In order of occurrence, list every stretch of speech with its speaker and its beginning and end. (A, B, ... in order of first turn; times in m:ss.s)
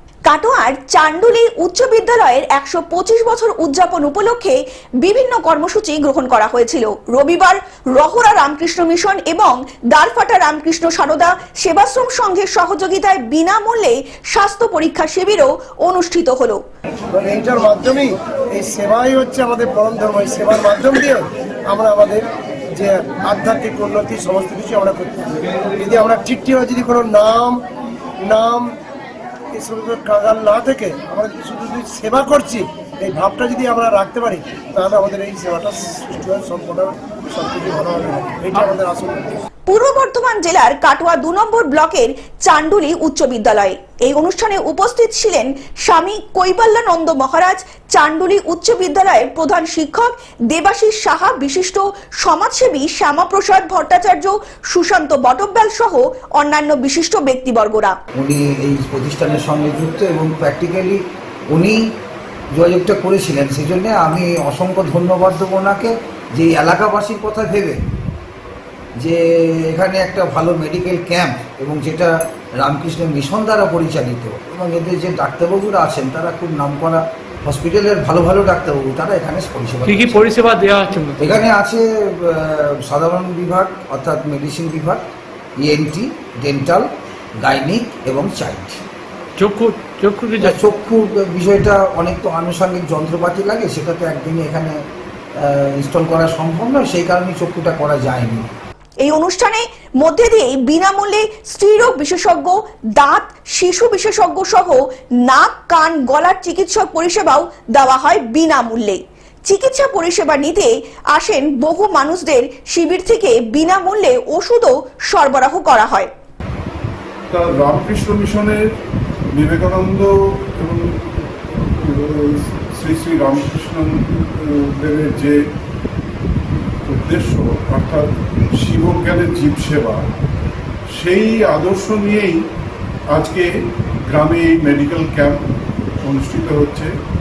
0:00.2-0:16.6 A
0:17.1-0:27.6 B
0:28.2-0:28.7 B
0:29.5-0:39.4 B
0:39.7-0:58.0 A
0:58.2-1:01.8 C
1:02.5-1:07.8 C
1:09.0-1:20.4 C
1:19.8-1:21.2 D
1:21.2-1:25.0 C
1:25.6-1:26.9 C
1:27.4-1:28.8 C
1:29.4-1:30.5 D
1:30.4-1:34.7 C
1:35.4-1:38.5 C
1:39.0-1:56.1 A
1:57.3-1:58.6 E
1:59.3-2:05.4 E
2:06.8-2:10.1 E
2:11.0-2:12.5 E
2:13.1-2:13.5 E
2:14.1-2:15.4 E
2:16.0-2:16.9 E